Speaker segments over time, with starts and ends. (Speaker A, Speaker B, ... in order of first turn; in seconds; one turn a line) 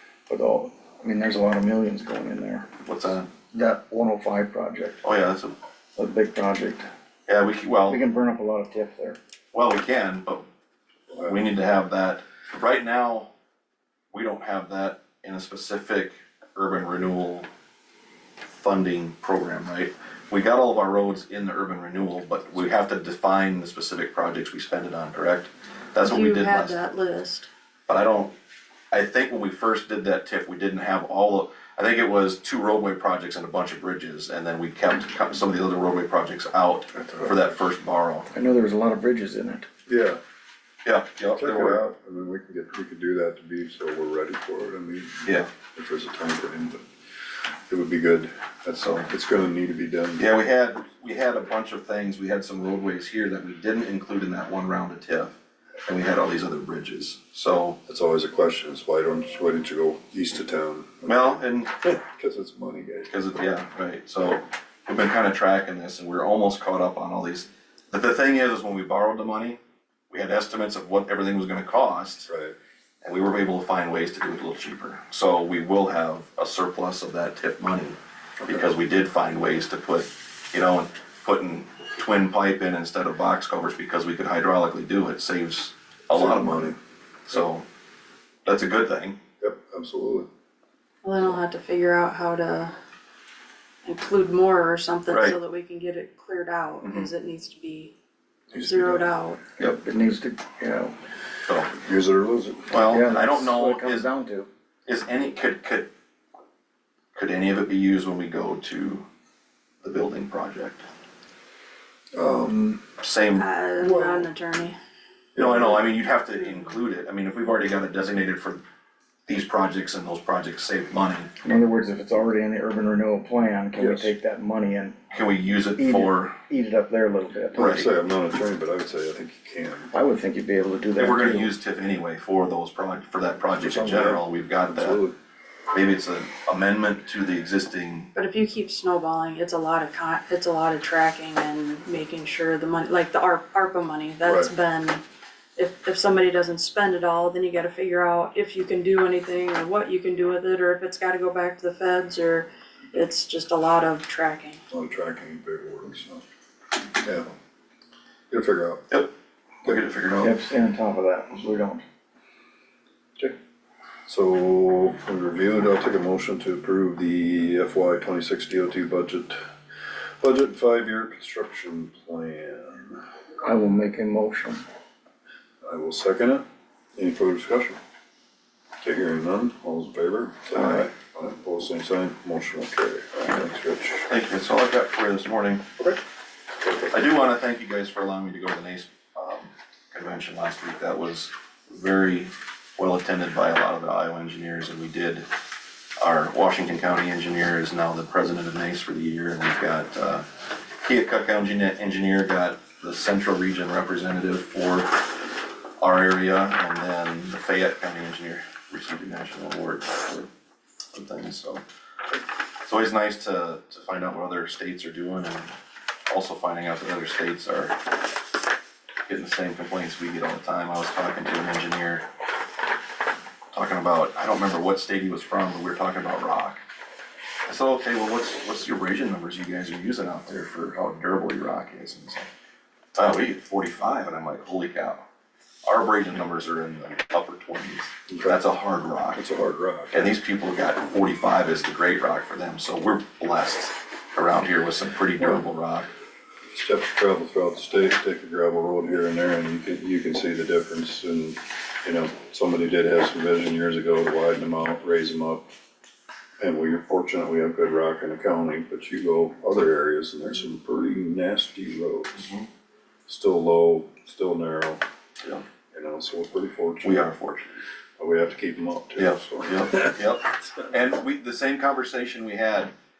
Speaker A: 0.3-2.6
Speaker B: 2.8-3.3
Speaker A: 3.5-5.0
Speaker B: 5.0-5.5
Speaker A: 6.0-6.9
Speaker B: 7.3-8.0
Speaker A: 7.9-9.2
Speaker B: 9.5-10.4
Speaker C: 11.1-11.4
Speaker B: 11.2-13.3
Speaker B: 14.1-17.5
Speaker B: 18.5-26.8
Speaker D: 26.0-27.5
Speaker B: 27.9-28.3
Speaker B: 28.9-38.3
Speaker C: 37.0-37.4
Speaker A: 38.3-39.7
Speaker C: 39.9-40.2
Speaker B: 40.8-41.8
Speaker C: 41.4-46.8
Speaker C: 47.7-50.2
Speaker B: 48.7-49.1
Speaker B: 50.2-55.3
Speaker B: 55.9-57.8
Speaker C: 57.9-63.1
Speaker B: 61.0-61.7
Speaker B: 63.1-72.3
Speaker C: 72.3-72.5
Speaker B: 73.0-86.7
Speaker C: 86.1-86.8
Speaker B: 87.3-87.6
Speaker B: 88.4-89.2
Speaker C: 89.4-90.3
Speaker D: 91.0-92.7
Speaker D: 93.8-97.9
Speaker B: 95.1-95.3
Speaker B: 96.8-97.1
Speaker C: 98.5-99.1
Speaker D: 98.5-99.4
Speaker A: 99.6-100.9
Speaker B: 101.5-101.7
Speaker C: 101.8-102.8
Speaker B: 102.7-104.1
Speaker A: 102.9-104.5
Speaker B: 104.8-105.9
Speaker B: 107.1-109.0
Speaker B: 109.8-110.8
Speaker C: 112.1-112.8
Speaker B: 113.0-113.5
Speaker D: 113.3-114.8
Speaker C: 113.8-114.3
Speaker C: 115.3-115.8
Speaker B: 115.4-118.6
Speaker B: 119.3-121.3
Speaker A: 121.4-125.0
Speaker C: 123.7-124.1
Speaker B: 125.1-126.4
Speaker A: 125.8-127.6
Speaker B: 127.5-127.9
Speaker C: 127.5-129.9
Speaker A: 129.9-131.5
Speaker B: 130.9-135.0
Speaker C: 133.5-135.2
Speaker B: 135.7-138.1
Speaker D: 138.2-145.0
Speaker C: 144.2-144.5
Speaker D: 145.6-154.6
Speaker C: 154.7-156.2
Speaker C: 157.0-157.3
Speaker C: 158.3-158.9
Speaker B: 159.6-160.3
Speaker A: 160.2-161.8
Speaker C: 164.1-169.4
Speaker C: 170.2-173.0
Speaker A: 173.4-174.6
Speaker C: 175.6-176.4
Speaker C: 176.9-177.8
Speaker C: 178.8-184.1
Speaker B: 180.5-180.8
Speaker B: 184.1-185.7
Speaker B: 186.9-195.3
Speaker B: 196.0-200.2
Speaker B: 200.8-210.3
Speaker B: 210.9-211.6
Speaker B: 212.6-215.5
Speaker B: 216.1-217.8
Speaker B: 219.1-222.0
Speaker B: 223.5-226.6
Speaker B: 227.5-232.3
Speaker B: 232.9-235.1
Speaker B: 235.7-239.2
Speaker C: 238.1-238.4
Speaker C: 239.2-240.1
Speaker B: 239.9-245.9
Speaker C: 246.5-255.5
Speaker C: 256.4-262.2
Speaker B: 262.2-262.4
Speaker C: 263.1-264.8
Speaker C: 265.7-267.1
Speaker B: 266.8-267.4
Speaker C: 268.0-270.0
Speaker B: 269.0-272.7